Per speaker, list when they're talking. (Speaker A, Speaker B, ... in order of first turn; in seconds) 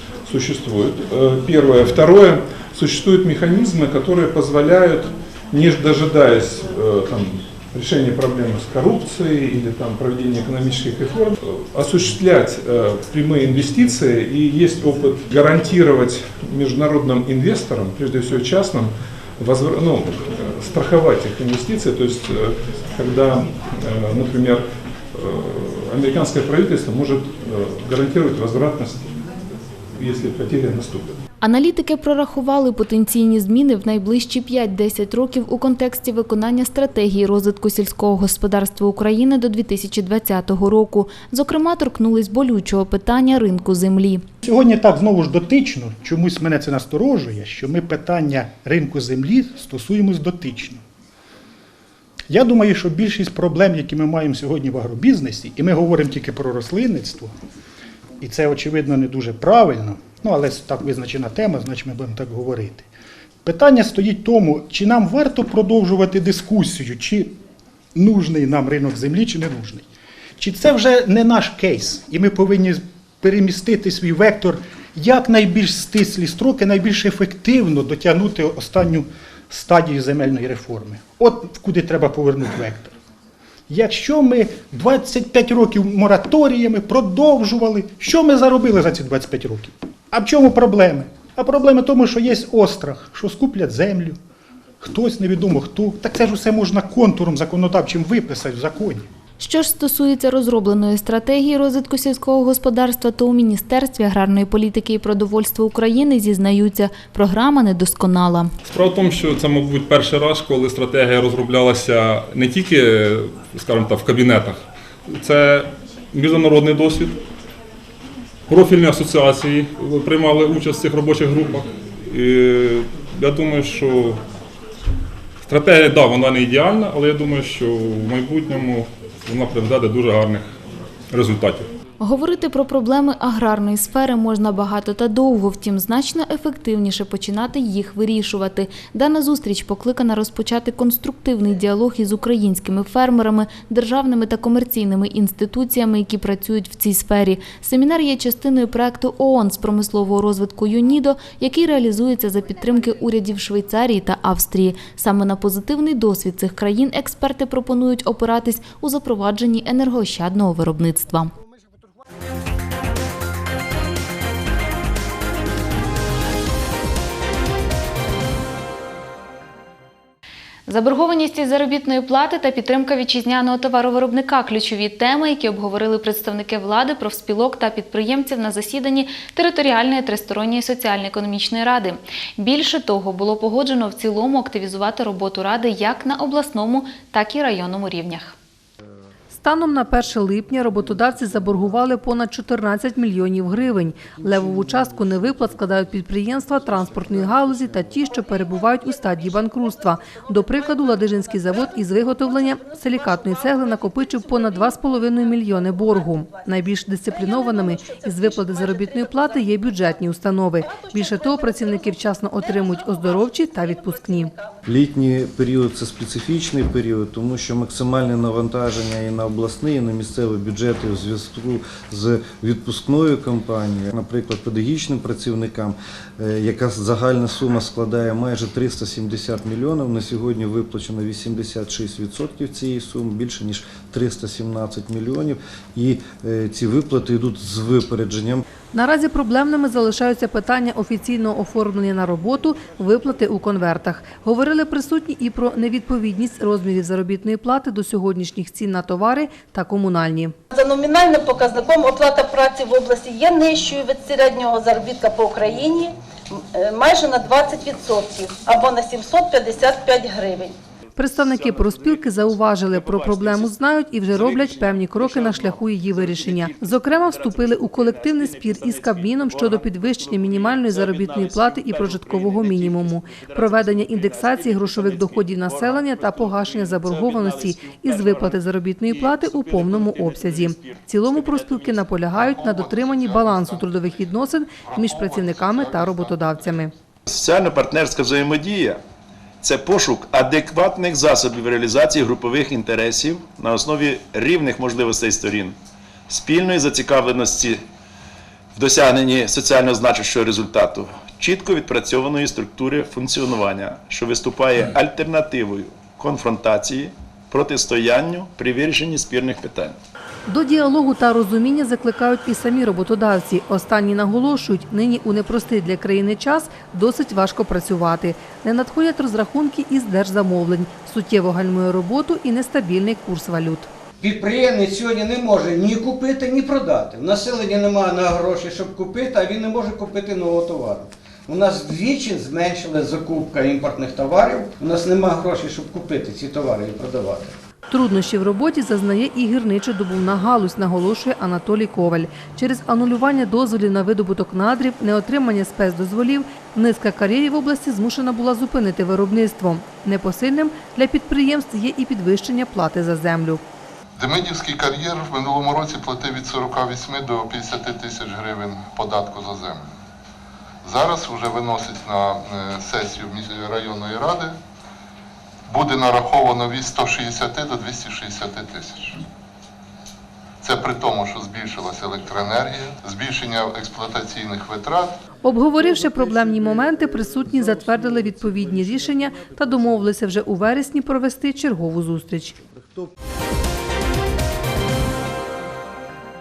Speaker A: 0.3-29.2, 30.0-31.2
Speaker B: 31.4-44.2, 99.4-108.5, 132.0-161.3, 170.7-188.4
Speaker C: 44.4-50.8, 52.3-57.3, 58.2-62.9, 63.4-67.4, 68.0-69.9, 70.4-82.9, 83.7-94.2, 94.8-99.1
Speaker D: 108.7-114.6, 115.1-117.2, 118.5-124.2, 125.5-130.5, 131.1-131.7
Speaker E: 189.3-214.3, 238.7-250.4, 261.0-286.7, 310.3-323.7, 337.7-353.4, 375.2-382.4
Speaker F: 202.6-204.6, 205.9-206.4, 207.1-209.9, 210.6-214.6, 250.5-260.6
Speaker G: 214.7-238.5
Speaker H: 261.3-263.5, 264.1-267.3, 267.9-269.4, 270.4-275.6, 276.9-278.0, 287.1-288.8, 289.4-295.6, 296.1-297.7, 298.5-309.8
Speaker I: 324.1-330.8, 331.6-337.3
Speaker J: 354.0-359.8, 360.6-364.4, 365.5-369.0, 370.4-375.0